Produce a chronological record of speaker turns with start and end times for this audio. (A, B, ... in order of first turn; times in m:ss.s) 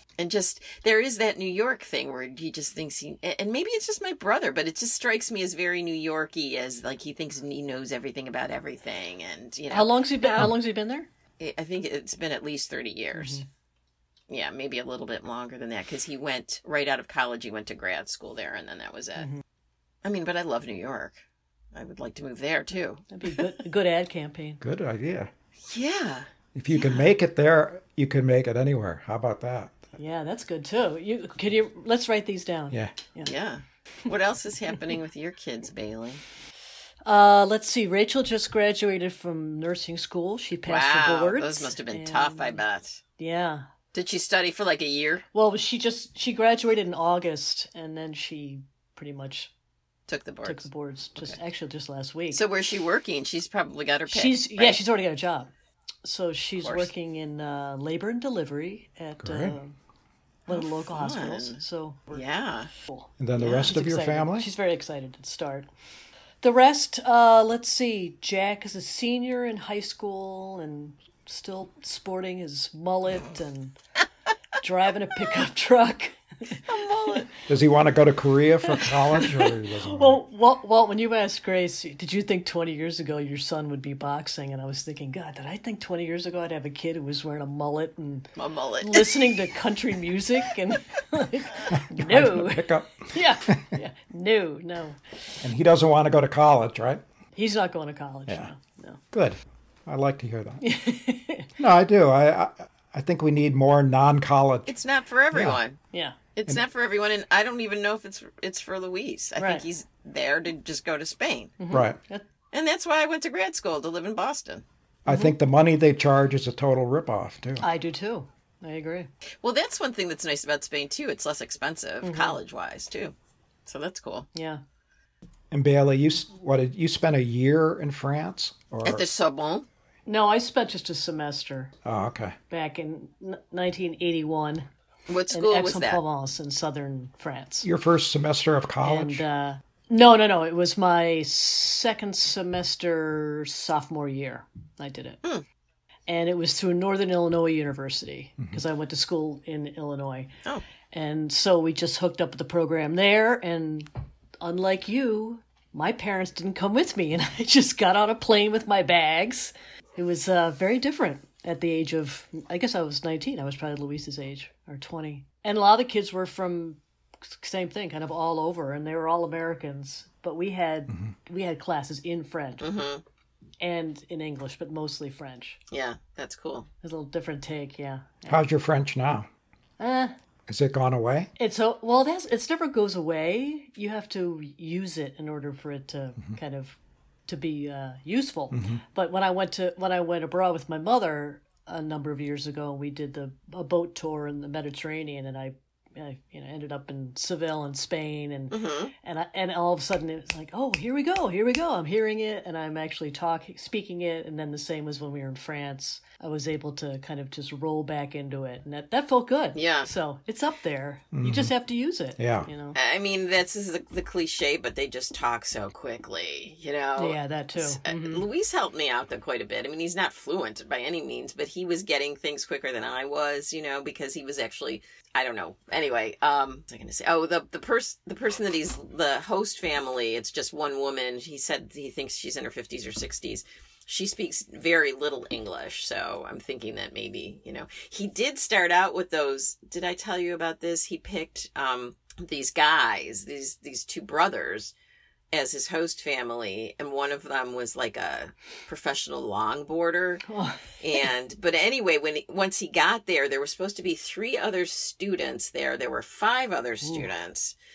0:00.2-0:10.5 A
0:09.7-0:11.1 B
0:11.4-0:13.4 A
0:13.1-0:13.4 B
0:14.3-0:19.3 A
0:20.0-0:21.2 A
0:21.7-0:23.4 A
0:23.1-0:24.6 B
0:24.6-0:25.3 C
0:25.7-0:27.0 A
0:26.5-0:29.8 C
0:30.0-0:33.3 B
0:33.2-0:36.2 A
0:37.0-0:42.6 B
0:40.6-0:43.0 A
0:43.2-0:43.7 B
0:43.9-0:45.2 A
0:45.3-0:49.5 B
0:50.1-0:50.6 A
0:50.4-0:52.4 B
0:52.3-0:54.8 A
0:54.1-0:55.5 B
0:56.0-0:59.8 B
0:56.6-0:56.9 A
0:59.2-0:59.6 C
1:00.5-1:02.2 B
1:00.5-1:01.6 A
1:02.1-1:02.7 A
1:02.8-1:05.7 B
1:03.2-1:04.5 C
1:03.4-1:03.7 A
1:06.4-1:13.8 B
1:14.6-1:16.6 B
1:16.6-1:17.3 A
1:17.5-1:20.2 C
1:18.7-1:35.0 B
1:28.4-1:29.4 A
1:31.7-1:33.8 C
1:35.4-1:37.0 C
1:37.3-1:39.0 B
1:39.1-1:40.6 C
1:40.6-1:41.5 B
1:41.6-1:44.7 C
1:44.7-1:45.8 A
1:45.3-1:45.6 C
1:45.9-1:46.2 B
1:46.4-1:51.6 A
1:49.4-1:49.6 B
1:51.6-1:52.2 B
1:51.7-1:52.0 C
1:52.5-1:54.6 A
1:55.0-1:57.6 C
1:57.6-1:59.1 B
1:59.4-2:03.1 A
2:02.0-2:02.4 B
2:03.6-2:04.3 A
2:04.3-2:04.6 B
2:05.5-2:09.0 C
2:08.8-2:09.6 A
2:10.0-2:11.7 B
2:11.8-2:12.4 C
2:12.5-2:14.7 B
2:15.1-2:16.0 A
2:15.3-2:17.7 B
2:17.6-2:19.2 C
2:18.8-2:25.2 B
2:26.1-2:30.3 B
2:30.9-2:33.9 B
2:34.4-2:52.7 B
2:52.6-2:53.0 A
2:53.6-2:55.6 B
2:55.7-2:56.7 A
2:56.8-2:58.4 B
2:58.3-2:59.3 C
2:59.8-3:00.1 B
3:00.5-3:01.3 C
3:01.4-3:32.8 B
3:08.5-3:08.8 C
3:18.5-3:18.9 A
3:29.5-3:29.9 A
3:31.1-3:31.5 C
3:32.2-3:32.5 C
3:32.7-4:04.7 A
3:37.0-3:38.2 B
4:05.3-4:10.2 A
4:10.2-4:11.1 B
4:10.8-4:17.5 A
4:16.8-4:17.1 B